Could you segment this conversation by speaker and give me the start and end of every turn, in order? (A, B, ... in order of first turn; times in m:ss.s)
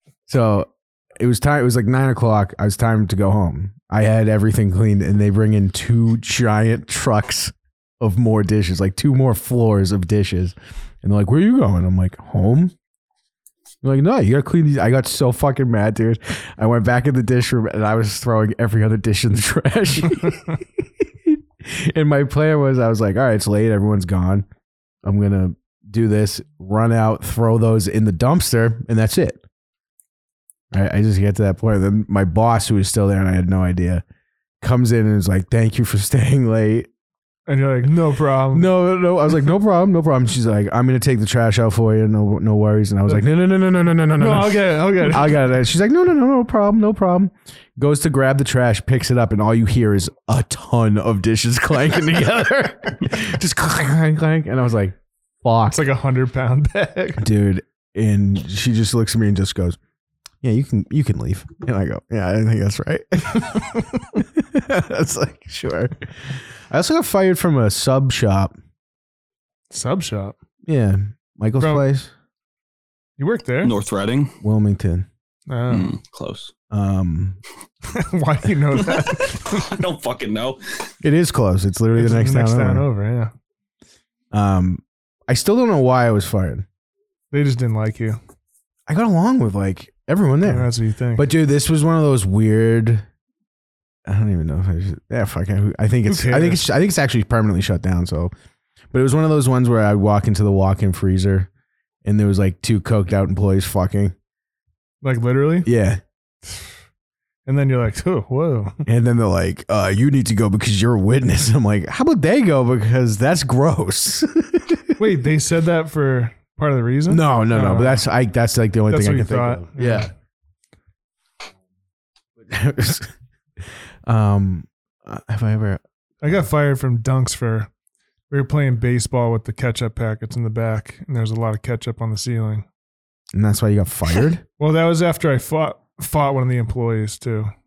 0:00.3-0:12.7 A
0:13.8-0:24.5 A
0:25.0-0:29.4 A
0:30.7-0:34.0 A
0:34.6-0:36.9 A
0:37.5-0:38.7 B
0:38.5-0:55.8 A
0:44.2-0:45.4 B
0:55.7-0:57.2 B
0:57.2-0:59.8 A
1:00.4-1:08.6 A
1:09.7-1:10.4 B
1:10.7-1:12.1 A
1:11.6-1:11.8 B
1:13.2-1:13.7 B
1:13.6-1:14.4 C
1:14.4-1:15.1 A
1:15.5-1:15.9 B
1:15.7-1:16.5 C
1:16.7-1:17.4 A
1:17.9-1:19.6 B
1:18.8-1:20.9 C
1:21.0-1:22.9 A
1:22.0-1:23.3 B
1:24.3-1:26.7 A
1:27.3-1:28.2 B
1:28.9-1:33.1 A
1:30.4-1:31.3 B
1:34.1-1:38.3 A
1:36.1-1:36.7 B
1:38.9-1:41.5 A
1:42.0-1:44.2 A
1:45.0-1:45.7 B
1:45.6-1:46.0 A
1:47.5-1:48.8 B
1:48.9-1:55.0 A
1:55.0-1:58.0 B
1:57.1-2:00.1 A
1:58.9-2:00.1 B
2:02.4-2:03.1 A
2:04.1-2:05.8 A
2:06.2-2:07.7 B
2:08.3-2:12.7 B
2:13.3-2:14.4 A
2:14.6-2:17.5 B